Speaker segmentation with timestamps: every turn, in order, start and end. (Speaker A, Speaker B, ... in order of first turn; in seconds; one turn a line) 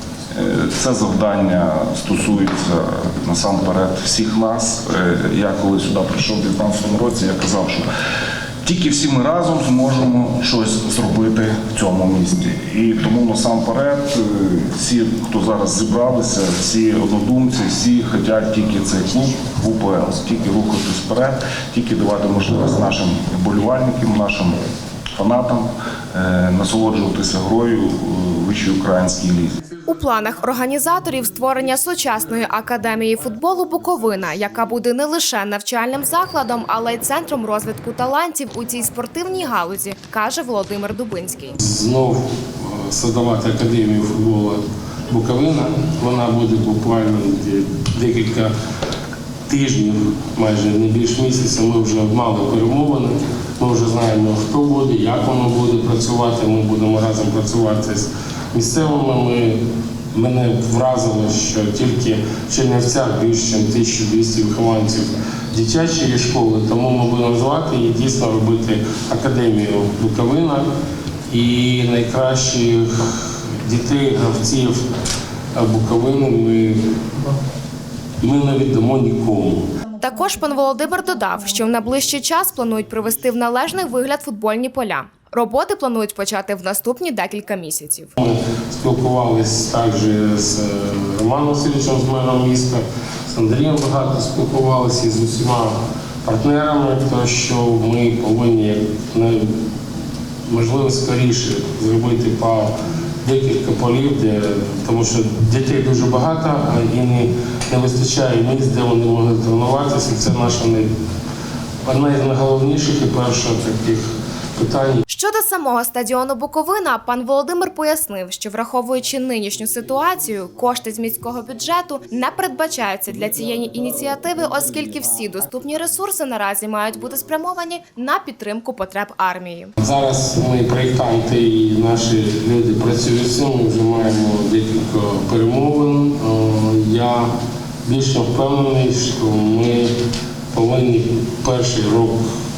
Speaker A: 0.3-7.8
Speaker A: 8.6-24.6
Speaker A: 25.1-29.5
Speaker B: 29.9-41.6
Speaker C: 41.6-48.5
Speaker C: 49.5-70.7
Speaker C: 71.3-74.9
Speaker C: 75.5-76.9
Speaker C: 78.2-79.7
Speaker B: 80.0-88.1
Speaker C: 88.2-99.5
Speaker C: 100.5-110.9
Speaker C: 111.8-115.0
Speaker B: 115.1-129.7
Speaker C: 129.8-137.3
Speaker C: 137.8-140.0
Speaker C: 140.5-142.2